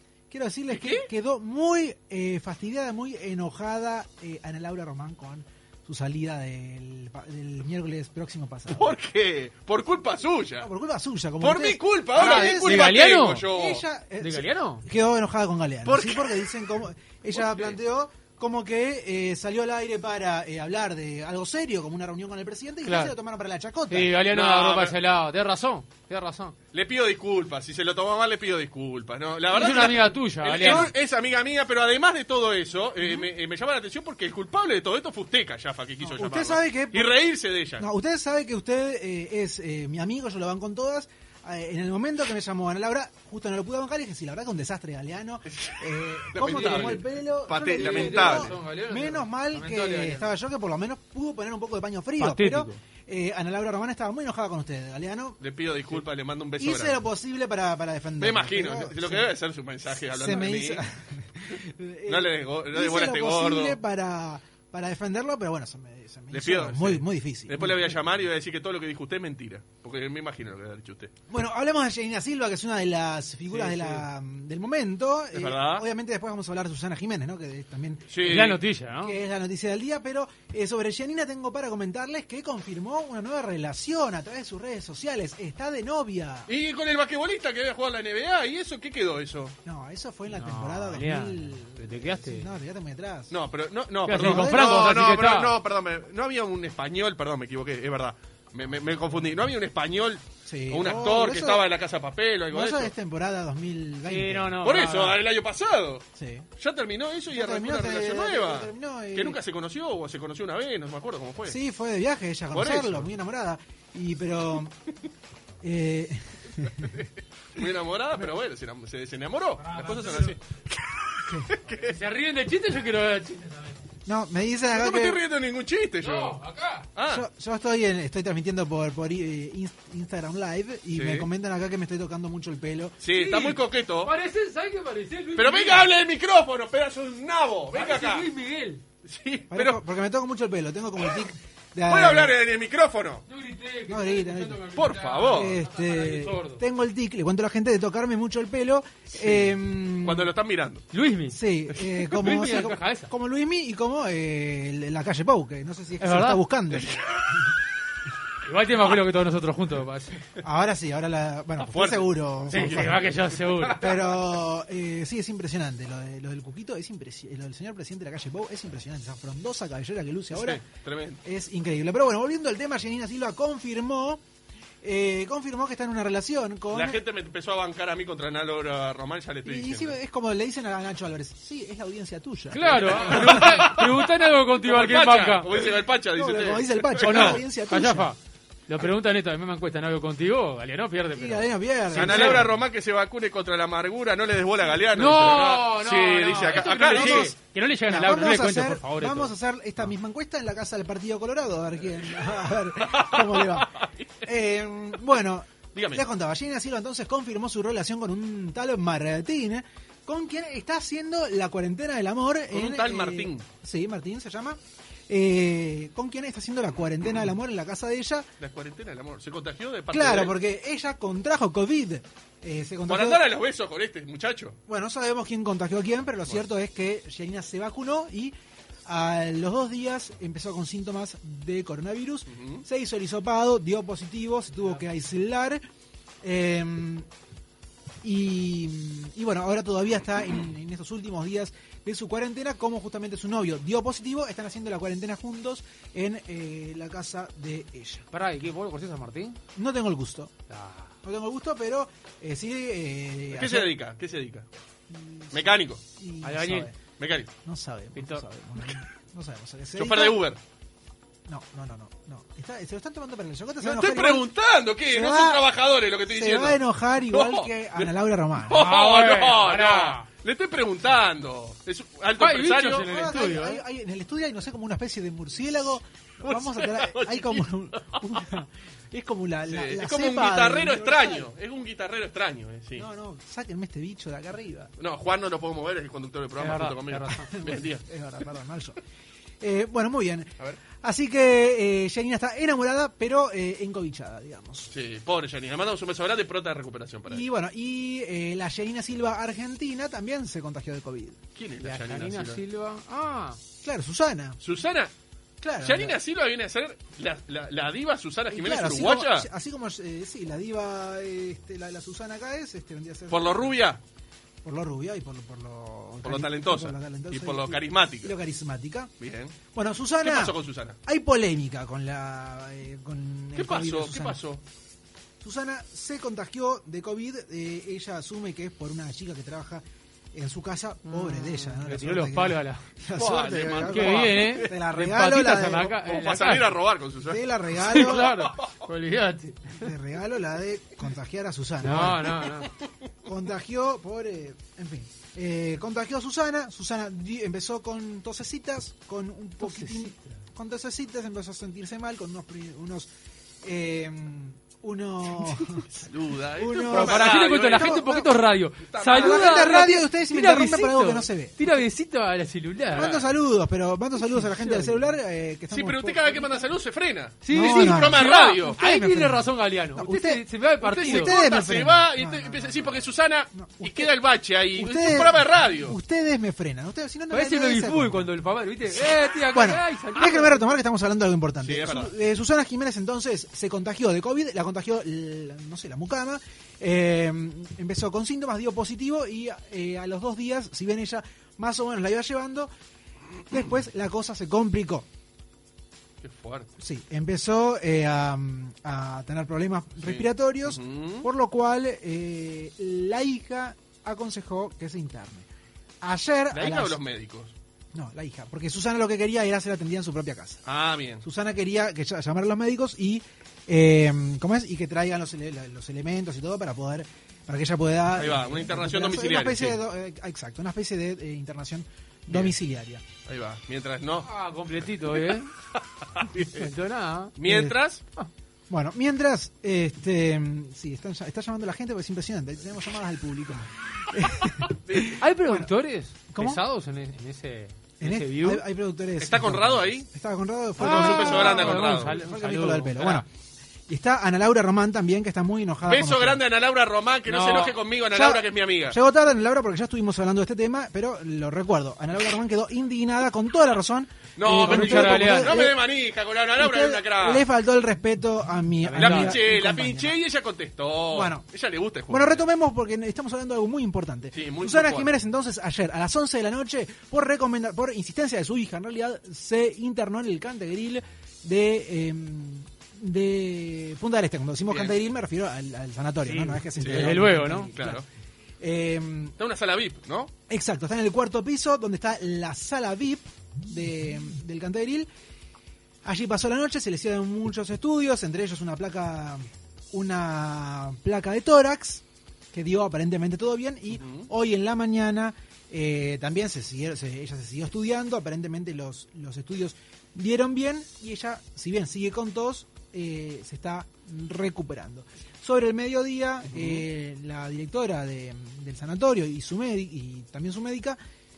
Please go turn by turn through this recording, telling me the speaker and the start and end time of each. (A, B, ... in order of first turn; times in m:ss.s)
0:00.3-0:09.0 A
0:00.7-0:01.1 B
0:08.7-0:10.7 B
0:10.6-0:24.1 A
0:11.4-0:13.8 B
0:12.2-0:13.5 C
0:14.2-0:14.8 C
0:15.8-0:16.4 B
0:17.3-0:17.8 B
0:22.8-0:23.2 C
0:23.9-0:26.6 C
0:24.2-0:25.0 B
0:26.7-0:37.9 B
0:29.5-0:30.9 C
0:29.6-0:30.1 A
0:30.6-0:30.9 A
0:36.0-0:37.2 A
0:37.8-0:55.4 A
0:45.5-0:48.6 B
0:46.5-0:47.0 C
0:47.6-0:50.3 C
0:52.2-0:52.8 C
0:55.4-0:57.0 B
0:56.6-0:59.3 A
0:58.2-1:00.8 B
1:00.0-1:08.0 A
1:02.1-1:03.8 B
1:06.3-1:11.1 B
1:11.3-1:18.4 A
1:13.5-1:14.0 B
1:15.3-1:15.8 B
1:18.1-1:18.6 B
1:18.2-1:19.1 C
1:19.0-1:26.5 A
1:26.5-1:29.6 B
1:29.6-1:33.3 A
1:30.3-1:32.5 C
1:33.3-1:42.9 B
1:34.1-1:35.5 C
1:34.1-1:34.9 A
1:40.5-1:41.7 A
1:42.5-1:44.6 A
1:44.1-1:45.2 C
1:44.6-1:46.0 B
1:46.2-1:46.5 A
1:46.6-1:51.6 B
1:47.3-1:49.4 A
1:51.4-1:54.7 A
1:52.5-1:53.1 B
1:55.6-1:57.0 A
1:56.8-2:01.9 B
1:59.6-2:00.4 C
2:01.7-2:03.8 C
2:04.1-2:05.2 A
2:04.7-2:06.4 B
2:06.0-2:06.9 C
2:07.0-2:07.2 B
2:07.1-2:13.0 A
2:10.9-2:11.3 B
2:13.0-2:14.1 B
2:13.1-2:15.9 C
2:15.4-2:18.3 B
2:17.7-2:18.8 C
2:19.0-2:19.8 B
2:19.5-2:22.4 A
2:21.9-2:23.2 B
2:23.3-2:26.6 C
2:23.9-2:24.7 A
2:24.8-2:25.6 B
2:25.3-2:30.3 A
2:29.2-2:30.8 B
2:30.9-2:33.1 C
2:31.3-2:37.0 A
2:36.0-2:36.4 C
2:36.7-2:37.4 B
2:38.4-2:40.2 C
2:40.4-2:43.1 A
2:41.6-2:44.1 B
2:42.5-2:43.8 C
2:43.7-2:50.6 A
2:50.3-2:51.2 B
2:51.2-2:54.2 A
2:54.8-2:57.0 A
2:56.7-3:00.0 B
2:59.4-3:03.7 A
3:02.5-3:05.5 C
3:03.0-3:07.4 B
3:06.1-3:08.1 A
3:07.0-3:12.5 C
3:11.2-3:12.5 A
3:11.9-3:17.3 B
3:14.9-3:19.3 C
3:16.7-3:38.3 A
3:22.8-3:24.1 B
3:25.8-3:26.0 B
3:32.5-3:33.4 B
3:38.4-3:40.3 B
3:39.9-3:43.2 A
3:42.9-3:44.6 B
3:44.7-3:48.3 A
3:48.9-3:55.6 A
3:52.3-3:52.6 B
3:56.2-3:57.1 A
3:58.0-4:08.0 A
4:08.1-4:09.4 C
4:09.6-4:10.3 A
4:10.5-4:10.9 C
4:11.0-4:13.7 A
4:13.3-4:14.4 B
4:14.9-4:16.8 A
4:15.3-4:15.8 B
4:16.2-4:16.7 C
4:17.0-4:17.3 B
4:17.4-4:20.2 A
4:18.0-4:18.2 C
4:19.8-4:20.4 B
4:21.3-4:24.3 A
4:23.6-4:27.9 B
4:24.9-4:25.5 A
4:26.1-4:28.7 A
4:28.5-4:33.1 B
4:28.5-4:30.1 C
4:32.2-4:33.6 C
4:32.7-4:41.3 A
4:36.2-4:38.0 B
4:39.4-4:42.9 B
4:42.8-4:44.7 A
4:44.8-4:47.8 B
4:46.4-4:47.3 C
4:47.3-4:48.8 A
4:49.4-4:54.7 A
4:54.7-4:57.2 B
4:57.1-5:01.2 A
5:01.4-5:02.4 B
5:01.6-5:03.4 C
5:03.6-5:04.4 A
5:04.4-5:04.9 B
5:05.4-5:06.0 A
5:05.6-5:09.3 B
5:08.3-5:13.6 A
5:13.1-5:13.8 B
5:14.4-5:18.9 A
5:16.0-5:18.2 B
5:19.0-5:19.4 B
5:19.5-5:24.2 A
5:20.0-5:20.8 B
5:23.4-5:24.4 B
5:25.2-5:35.8 A
5:30.9-5:32.6 C
5:32.9-5:34.5 B
5:33.6-5:36.5 C
5:35.8-5:37.3 B
5:37.0-5:38.3 A
5:37.6-5:39.7 C
5:39.6-5:42.2 A
5:41.6-5:42.5 C
5:43.0-5:52.9 A
5:49.4-5:50.2 C
5:53.4-5:55.7 A
5:55.6-5:57.9 B
5:56.4-5:58.2 A
5:56.7-6:02.9 C
5:58.7-5:59.6 B
5:58.9-6:01.5 A
6:02.7-6:06.5 A
6:02.8-6:03.1 B
6:04.1-6:04.8 C
6:05.5-6:08.6 B
6:07.2-6:11.2 C
6:07.3-6:13.9 A
6:10.6-6:15.8 B
6:14.6-6:18.1 A
6:17.1-6:20.5 C
6:19.3-6:32.5 A
6:21.4-6:21.9 B
6:33.3-6:34.9 A
6:36.0-6:36.5 B
6:36.6-6:45.3 A
6:39.8-6:41.1 B
6:45.8-6:46.8 A
6:46.3-6:47.3 B
6:47.7-6:50.4 A
6:50.4-6:51.0 B
6:51.0-7:02.8 A
6:58.0-6:59.6 B
7:02.1-7:02.3 B
7:03.1-7:04.1 B
7:04.0-7:05.3 C
7:05.6-7:06.5 B
7:06.3-7:07.1 C
7:07.2-7:07.8 B
7:07.2-7:07.6 A
7:08.5-7:15.5 A
7:14.6-7:15.0 B
7:15.0-7:18.4 C
7:16.1-7:16.4 A
7:17.8-7:23.1 A
7:19.0-7:19.9 B
7:20.6-7:22.0 B
7:20.6-7:23.0 C
7:23.7-7:26.2 A
7:25.7-7:28.8 B
7:27.1-7:27.6 C
7:27.9-7:35.7 A
7:34.2-7:37.3 B
7:34.3-7:35.4 C
7:36.4-7:40.0 A
7:38.6-7:39.2 C
7:38.8-7:42.2 B
7:40.9-7:41.2 A
7:41.9-7:57.8 A
7:44.1-7:45.0 B
7:54.5-7:54.8 B
7:56.0-7:57.5 C
7:56.6-7:57.0 B
7:57.5-7:57.8 B
7:58.4-7:59.2 A
7:59.2-8:00.1 B
8:00.3-8:04.9 A
8:05.8-8:30.8 A
8:13.8-8:14.1 B
8:26.3-8:26.6 B